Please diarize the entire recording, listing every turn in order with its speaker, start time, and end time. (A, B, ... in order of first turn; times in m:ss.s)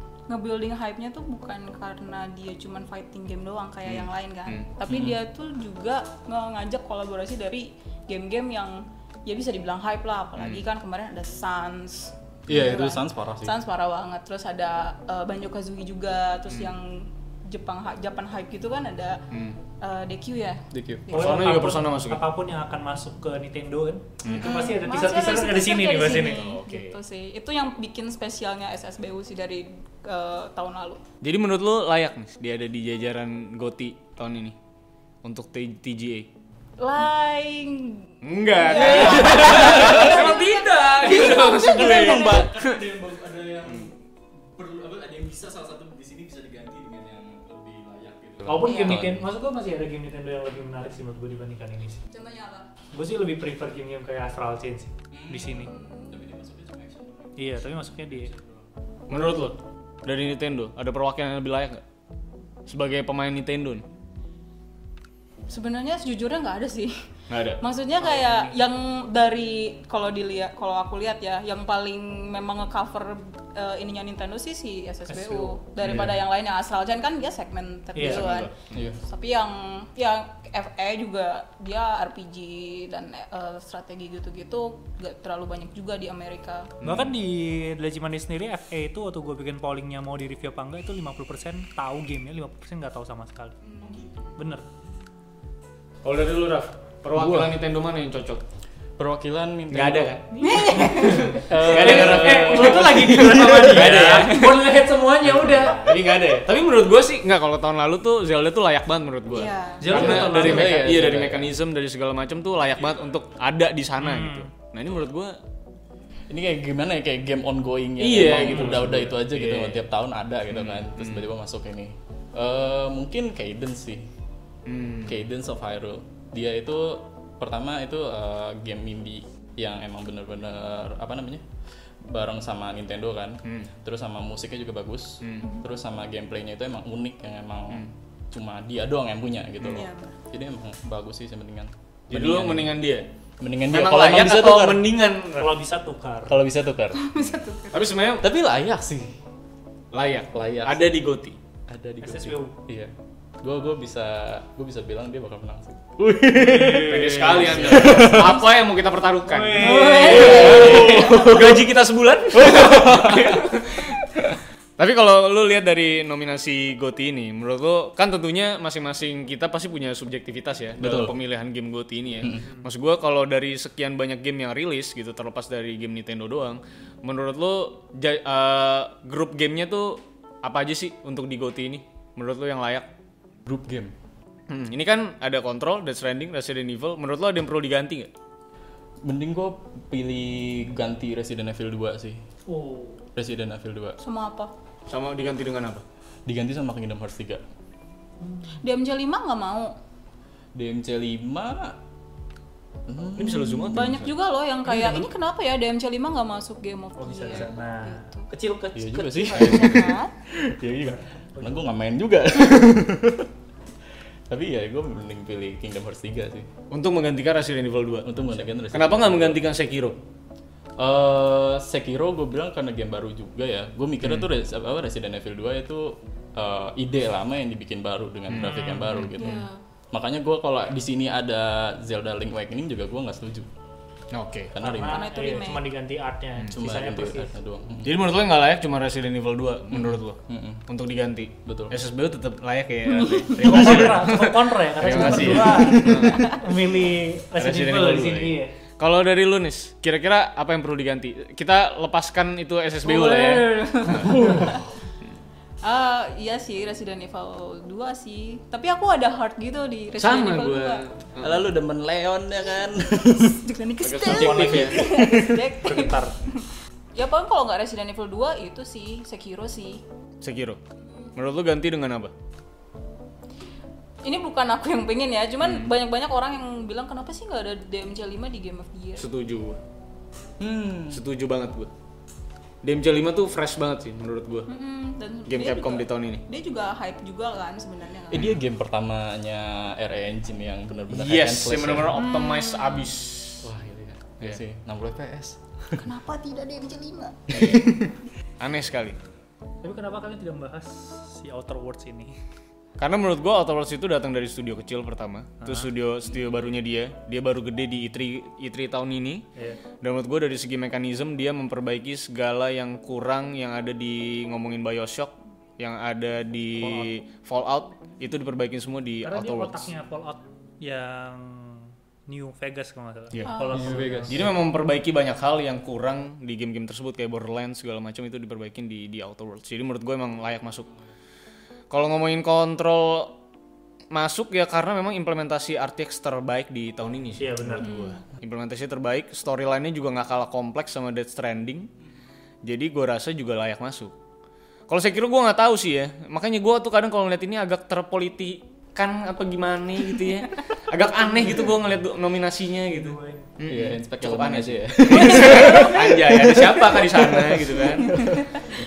0:00.3-0:19.2 A
0:03.8-0:04.7 B
0:04.9-0:05.2 C
0:10.4-0:10.6 B
0:12.5-0:13.6 C
0:16.5-0:16.7 B
0:19.3-0:19.6 B
0:19.8-0:21.6 A
0:20.7-0:21.1 C
0:21.1-0:26.5 D
0:21.1-0:22.2 B
0:24.2-0:24.8 B
0:24.3-0:31.0 A
0:26.0-0:27.0 B
0:31.2-0:34.6 B
0:35.2-0:36.3 B
0:36.8-0:42.5 A
0:38.2-0:42.8 B
0:38.8-0:40.4 C
0:41.0-0:49.2 C
0:48.4-0:52.0 D
0:48.6-0:49.0 A
0:52.1-0:52.7 A
0:52.9-0:55.7 D
0:55.1-0:58.6 C
0:55.5-0:56.2 A
0:57.4-0:58.3 D
0:59.1-1:01.8 B
0:59.1-0:59.5 D
1:02.7-1:03.8 B
1:05.5-1:06.9 A
1:07.3-1:07.6 B
1:07.6-1:26.7 A
1:08.0-1:08.5 D
1:15.1-1:15.6 D
1:15.8-1:16.1 B
1:15.8-1:16.2 C
1:17.9-1:18.2 D
1:18.0-1:18.9 B
1:18.7-1:19.0 C
1:26.8-1:27.1 B
1:26.8-1:33.6 D
1:33.6-1:34.2 A
1:34.4-1:34.6 D
1:36.0-1:38.4 B
1:37.1-1:37.6 C
1:39.0-1:40.2 C
1:39.7-1:44.7 B
1:40.4-1:41.3 A
1:40.6-1:45.9 D
1:41.4-1:44.1 C
1:45.2-1:46.2 C
1:45.5-1:55.3 B
1:49.3-1:50.2 A
1:49.8-1:50.9 D
1:49.9-1:51.5 C
1:54.0-1:54.5 D
1:56.3-2:04.1 C
1:58.0-1:59.8 B
1:58.4-1:58.8 D
2:00.5-2:01.2 B
2:04.6-2:05.2 B
2:05.0-2:11.4 C
2:12.0-2:22.8 C
2:13.4-2:13.7 B
2:15.2-2:15.5 B
2:19.6-2:19.8 B
2:19.6-2:20.1 A
2:22.1-2:23.1 B
2:23.4-2:24.9 C
2:23.7-2:25.6 B
2:25.4-2:26.4 D
2:26.2-2:27.1 C
2:26.9-2:28.0 A
2:27.7-2:28.3 B
2:28.2-2:29.2 C
2:29.9-2:31.4 B
2:30.3-2:31.0 C
2:31.7-2:38.4 C
2:32.0-2:32.5 D
2:36.5-2:37.2 D
2:36.6-2:44.1 B
2:37.6-2:38.4 A
2:39.2-2:40.4 D
2:39.6-2:41.3 A
2:39.7-2:41.7 C
2:42.3-2:43.4 C
2:44.8-3:02.9 B
2:50.8-2:51.2 C
3:03.4-3:03.9 C
3:04.5-3:08.1 B
3:09.0-3:12.2 C
3:12.5-3:13.0 D
3:13.1-3:14.0 C
3:14.0-3:14.5 A
3:14.9-3:15.8 B
3:16.2-3:17.4 C
3:18.2-3:18.6 D
3:18.6-3:19.7 A
3:20.5-3:21.8 C
3:22.8-3:24.0 C
3:23.2-3:24.1 B
3:23.7-3:28.3 A
3:24.6-3:25.1 D
3:27.0-3:29.8 D
3:28.7-3:33.3 C
3:29.2-3:30.1 A
3:30.7-3:31.7 D
3:34.3-3:36.5 C
3:36.7-3:40.0 B
3:38.0-3:39.4 C
3:40.8-3:53.5 C
3:44.0-3:44.3 B
3:48.3-3:49.3 B
3:48.4-3:48.9 D
3:49.2-3:49.6 A
3:54.1-3:54.5 B
3:54.5-3:55.1 C
3:54.6-3:57.3 D
3:54.8-3:55.6 A
3:56.5-3:58.0 C
3:57.8-4:06.4 B
3:59.7-4:00.6 C
4:01.4-4:01.8 C
4:02.8-4:03.6 A
4:03.4-4:08.5 D
4:03.6-4:03.9 C
4:04.8-4:06.3 C
4:06.1-4:06.4 A
4:07.4-4:14.2 B
4:12.8-4:14.6 A
4:14.0-4:14.6 C
4:15.6-4:20.8 A
4:20.0-4:21.5 B
4:21.2-4:23.4 C
4:23.1-4:29.8 A
4:23.8-4:24.8 B
4:24.1-4:26.2 D
4:24.2-4:25.5 C
4:30.2-4:30.6 B
4:30.8-4:31.1 A
4:31.2-4:32.1 B
4:34.0-4:39.1 A
4:35.4-4:35.7 B
4:39.0-4:39.6 B
4:40.4-4:41.0 C
4:40.9-4:41.7 B
4:42.6-4:44.5 B
4:44.5-4:48.3 A
4:45.3-4:46.2 B
4:48.1-4:52.0 C
4:50.9-4:53.5 B
4:52.0-4:52.9 A
4:53.4-4:55.8 C
4:55.7-4:57.4 A
4:57.3-4:57.9 C
4:58.4-4:59.0 B
4:59.6-5:02.2 D
5:02.8-5:09.2 B
5:05.4-5:05.7 D
5:09.8-5:19.7 B
5:16.6-5:16.9 D
5:19.0-5:24.1 D
5:23.1-5:23.4 B
5:23.2-5:23.7 A
5:23.5-5:24.4 C
5:24.1-5:30.7 B
5:31.7-5:33.2 B
5:33.9-5:41.7 B
5:37.2-5:37.7 D
5:37.6-5:38.0 A
5:42.4-5:43.9 B
5:44.7-5:58.1 B
5:52.7-5:53.3 D
5:53.4-5:58.4 C
5:55.2-5:55.6 A